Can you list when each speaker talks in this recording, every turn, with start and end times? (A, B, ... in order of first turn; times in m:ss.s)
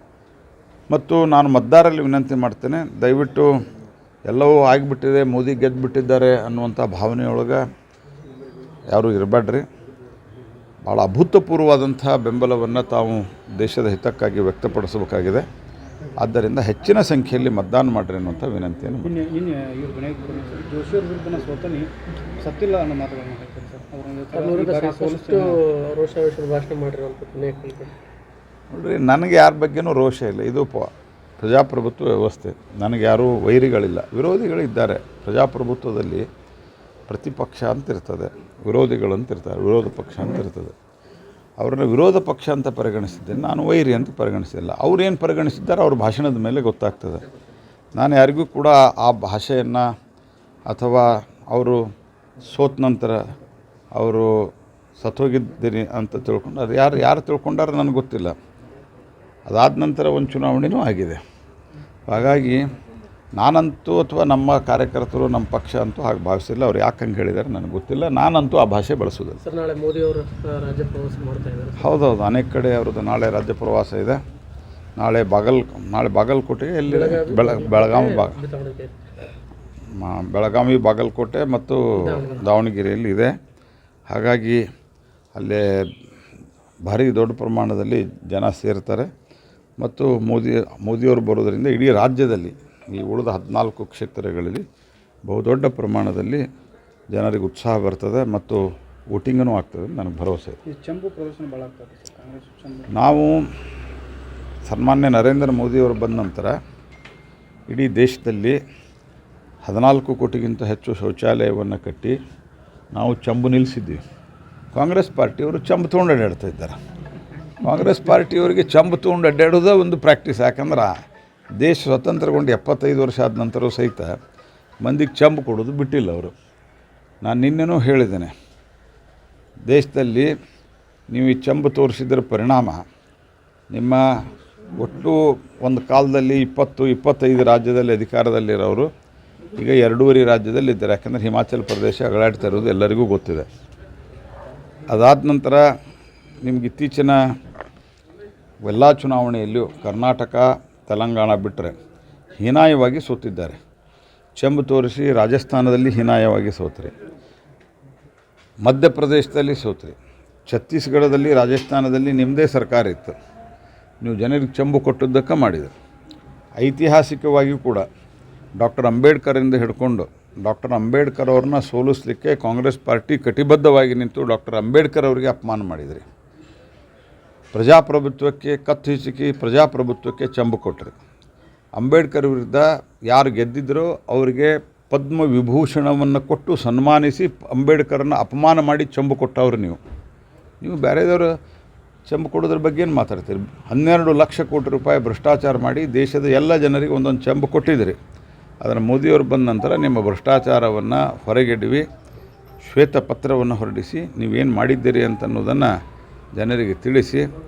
0:00.9-0:03.5 A
0:04.3-0:07.6 A
0:08.9-0:09.7 A
0:10.8-0:15.5 A
0:16.2-0:19.2 A
0:19.0-0:25.6 B
0:24.3-0:28.0 C
0:28.7-0:36.3 A
0:37.1-0:40.8 A
0:41.6-0:47.2 A
0:48.0-0:49.9 A
0:50.7-0:51.9 A
0:52.4-0:53.3 A
0:53.9-0:58.4 A
0:59.5-1:01.2 A
1:02.1-1:02.6 A
1:03.4-1:09.4 A
1:09.4-1:12.0 C
1:11.8-1:14.2 A
1:15.0-1:18.4 A
1:16.9-1:19.0 C
1:20.0-1:23.3 A
1:21.9-1:22.5 C
1:24.1-1:24.6 A
1:25.4-1:25.9 A
1:26.9-1:29.1 A
1:29.8-1:34.6 A
1:35.3-1:36.4 A
1:37.1-1:38.6 A
1:39.1-1:40.6 A
1:40.7-1:42.9 B
1:42.9-1:43.4 A
1:44.7-1:46.6 A
1:47.7-1:48.6 A
1:49.6-1:52.2 A
1:52.9-1:54.0 A
1:54.7-1:56.8 A
1:57.6-2:00.9 A
2:01.6-2:04.2 A
2:04.8-2:06.3 A
2:07.2-2:08.3 A
2:09.7-2:10.3 A
2:11.1-2:12.8 A
2:13.7-2:14.0 A
2:14.8-2:18.9 A
2:19.6-2:23.5 A
2:24.9-2:25.6 A
2:26.4-2:27.2 A
2:28.6-2:31.8 A
2:32.4-2:33.6 A
2:34.4-2:36.9 A
2:38.6-2:40.0 A
2:40.5-2:43.2 A
2:44.0-2:45.7 A
2:46.6-2:47.9 A
2:48.6-2:56.0 A
2:57.5-3:00.9 A
3:01.8-3:09.8 A
3:10.6-3:11.3 A
3:12.1-3:18.0 A
3:18.6-3:21.9 A
3:22.6-3:25.7 A
3:26.4-3:27.3 A